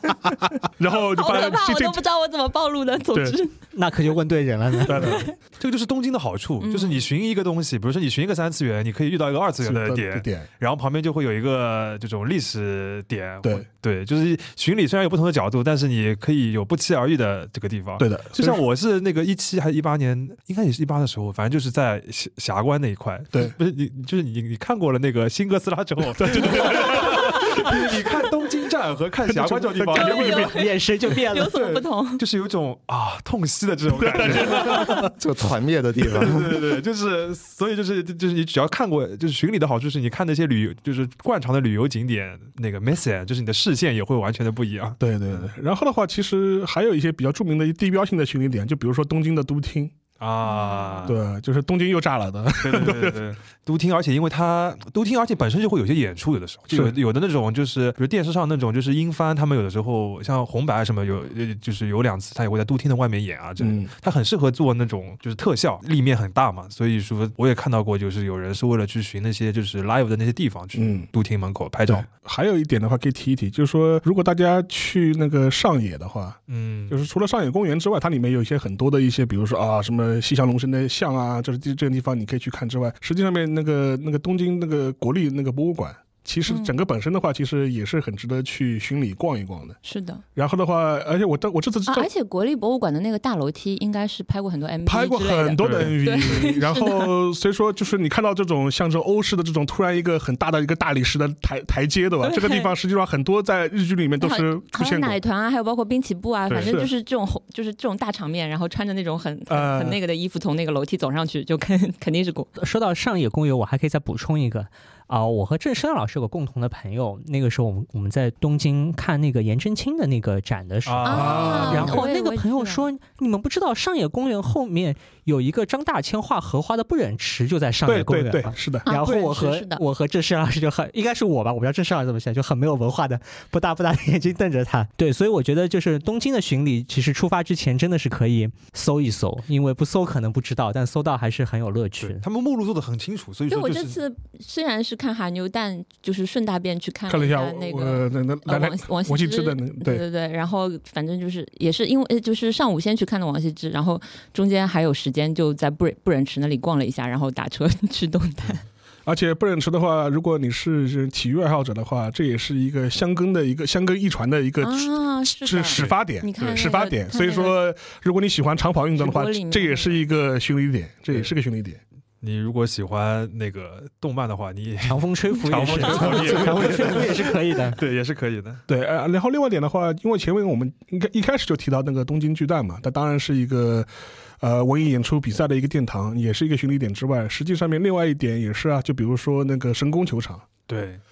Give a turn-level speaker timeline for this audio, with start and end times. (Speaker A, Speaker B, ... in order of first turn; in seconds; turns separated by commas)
Speaker A: 0.8-2.0, Speaker B: 0.9-3.5, Speaker C: 3.7-5.3, Speaker B: 4.7-5.3, Speaker A: 4.9-5.2, Speaker D: 5.6-30.5, Speaker B: 6.6-7.1, Speaker A: 9.6-10.5, Speaker A: 18.0-18.6, Speaker A: 26.2-28.0, Speaker B: 27.0-27.3, Speaker A: 29.3-30.6, Speaker B: 29.9-32.2, Speaker C: 30.4-31.6, Speaker D: 31.5-35.1, Speaker A: 33.9-35.1, Speaker E: 34.4-36.6, Speaker D: 36.1-45.5, Speaker A: 45.0-49.9, Speaker D: 50.2-51.2, Speaker B: 50.4-51.1, Speaker A: 51.1-53.2, Speaker D: 52.6-72.1, Speaker A: 63.6-63.9, Speaker A: 70.8-71.1, Speaker A: 71.9-89.8, Speaker D: 76.5-77.0, Speaker B: 86.5-86.8, Speaker B: 89.8-90.2, Speaker A: 90.3-92.1, Speaker B: 91.9-97.1, Speaker A: 94.9-105.2, Speaker D: 95.6-96.0, Speaker B: 102.2-102.7, Speaker B: 104.2-112.5, Speaker A: 106.5-106.9, Speaker A: 109.5-110.0, Speaker C: 112.6-142.2, Speaker D: 120.8-122.0, Speaker B: 121.0-122.9, Speaker A: 121.1-122.0, Speaker A: 127.9-128.9, Speaker B: 128.9-129.8, Speaker D: 142.0-144.0, Speaker B: 143.5-158.6, Speaker A: 147.1-150.0, Speaker A: 159.1-171.8, Speaker B: 164.6-167.6, Speaker B: 169.0-170.0, Speaker D: 172.2-178.6, Speaker C: 174.8-177.8, Speaker A: 176.2-176.8, Speaker A: 178.7-183.9, Speaker A: 184.4-190.5, Speaker D: 190.7-191.0